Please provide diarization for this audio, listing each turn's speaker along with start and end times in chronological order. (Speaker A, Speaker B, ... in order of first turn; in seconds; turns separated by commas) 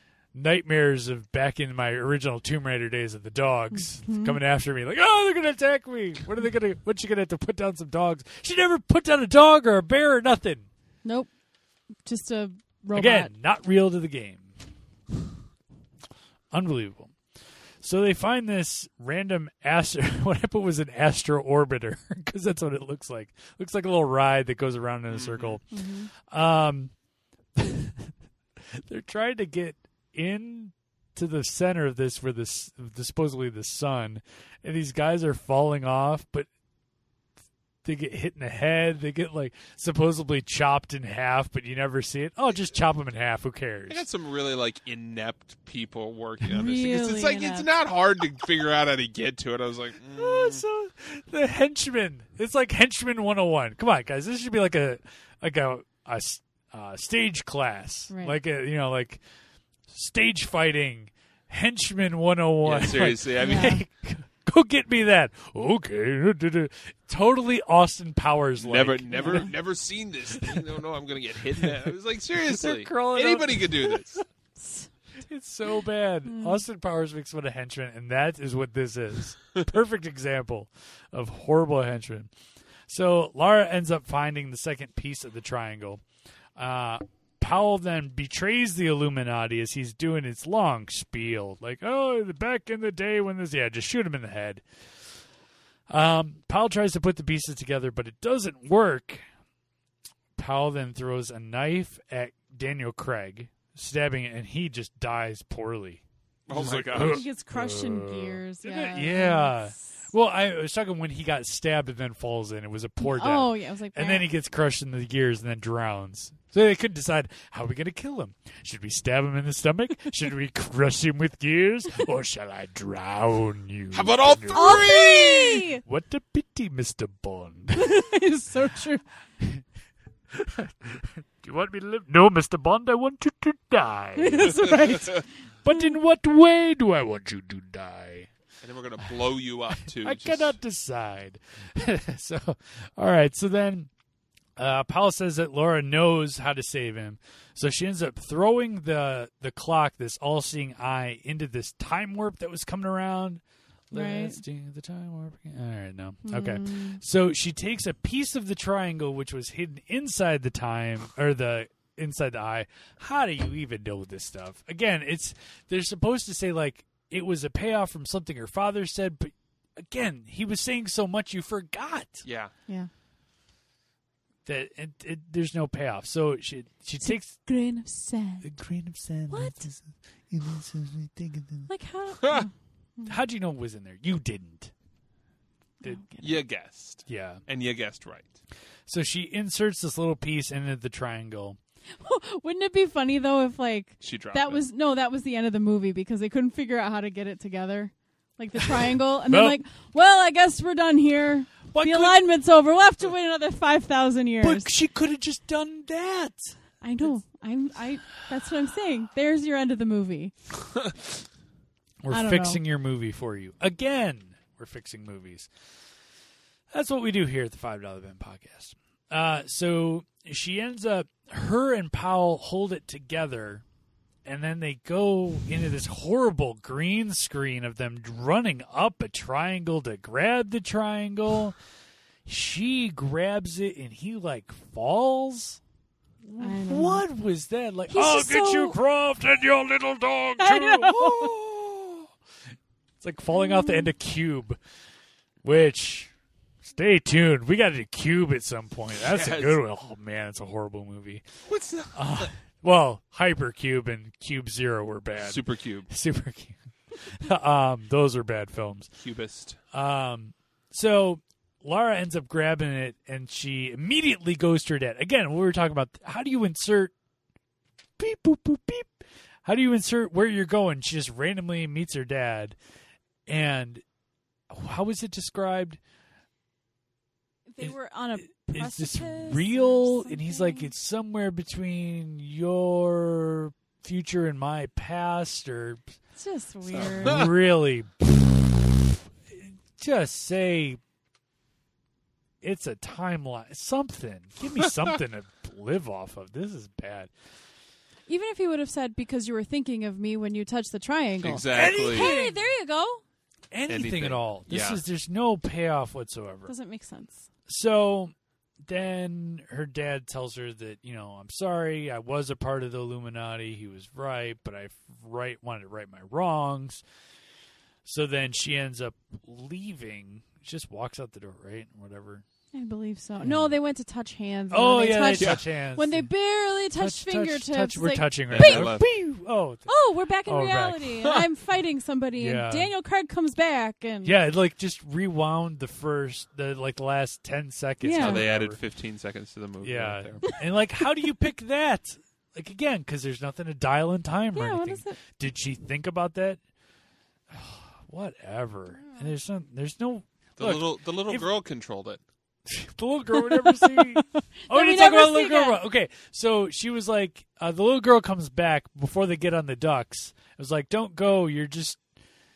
Speaker A: 0.3-10.7, Speaker B: 3.8-4.4, Speaker B: 11.0-11.3, Speaker B: 12.1-13.3, Speaker A: 12.9-14.5, Speaker A: 16.5-17.1, Speaker A: 17.8-26.9, Speaker C: 25.1-25.6, Speaker B: 25.7-26.1, Speaker A: 27.6-36.5, Speaker A: 37.8-44.0, Speaker C: 43.9-50.6, Speaker B: 46.4-47.7, Speaker A: 50.1-59.2, Speaker B: 58.1-58.4, Speaker A: 59.9-69.5, Speaker C: 62.6-63.8, Speaker B: 63.4-63.8, Speaker C: 68.6-74.2, Speaker B: 69.1-69.5, Speaker A: 70.3-70.8, Speaker A: 71.5-74.2, Speaker B: 74.6-74.9, Speaker A: 75.2-82.3, Speaker B: 76.3-76.6, Speaker A: 82.9-86.0, Speaker A: 86.6-94.6, Speaker A: 95.9-99.2, Speaker A: 100.4-125.0, Speaker C: 106.5-107.3, Speaker B: 106.9-109.7, Speaker B: 113.0-114.3, Speaker C: 123.9-125.7, Speaker B: 124.5-125.8, Speaker A: 125.8-128.1, Speaker B: 127.7-129.0, Speaker A: 130.3-135.0, Speaker B: 134.2-135.9, Speaker A: 135.6-138.3, Speaker C: 138.6-140.6, Speaker A: 139.9-143.9, Speaker A: 144.6-172.2, Speaker B: 153.9-154.4, Speaker B: 156.2-157.0, Speaker C: 172.2-172.5, Speaker A: 174.4-177.4, Speaker B: 177.0-178.5, Speaker A: 178.4-181.7, Speaker B: 179.3-179.7, Speaker B: 181.7-183.2, Speaker A: 183.1-184.7, Speaker B: 185.8-186.4, Speaker C: 186.2-188.3, Speaker A: 187.1-187.4, Speaker A: 188.9-191.6, Speaker B: 192.0-204.7, Speaker C: 194.0-194.7, Speaker A: 199.3-199.6, Speaker A: 201.7-202.2, Speaker A: 204.4-206.6, Speaker B: 206.8-210.3, Speaker A: 212.0-215.5, Speaker B: 212.1-212.6, Speaker A: 216.7-223.6, Speaker A: 224.2-231.6, Speaker A: 232.3-235.6, Speaker A: 236.3-242.1, Speaker B: 236.4-237.1, Speaker B: 237.9-238.8, Speaker B: 240.4-241.3, Speaker A: 243.0-244.6, Speaker B: 243.3-243.9, Speaker A: 245.4-246.1, Speaker A: 246.6-251.2, Speaker C: 249.0-249.6, Speaker C: 251.5-252.3, Speaker A: 251.9-258.9, Speaker C: 255.2-255.9, Speaker C: 259.0-259.6, Speaker A: 259.7-266.9, Speaker A: 268.0-272.6, Speaker A: 273.3-273.8, Speaker A: 274.5-275.8, Speaker B: 277.5-280.7, Speaker A: 278.3-285.8, Speaker B: 286.2-287.3, Speaker A: 286.8-290.8, Speaker C: 286.8-287.3, Speaker A: 292.4-297.1, Speaker B: 298.1-303.0, Speaker C: 301.2-302.1, Speaker A: 301.5-302.4, Speaker A: 303.5-306.5, Speaker C: 303.7-304.8, Speaker B: 306.5-307.2, Speaker A: 307.5-308.1, Speaker A: 308.6-316.8, Speaker A: 317.9-322.2, Speaker B: 322.5-328.7, Speaker A: 323.2-323.6, Speaker A: 324.5-326.1, Speaker C: 325.2-325.4, Speaker A: 326.8-329.7, Speaker C: 328.3-328.9, Speaker B: 329.7-334.2, Speaker A: 330.3-331.1, Speaker A: 332.2-332.7, Speaker A: 334.0-338.6, Speaker B: 337.8-338.3, Speaker C: 338.0-340.3, Speaker A: 339.6-346.4, Speaker B: 344.3-345.0, Speaker A: 347.3-351.3, Speaker B: 348.8-349.1, Speaker C: 350.4-352.0, Speaker A: 352.5-361.8, Speaker B: 353.1-355.6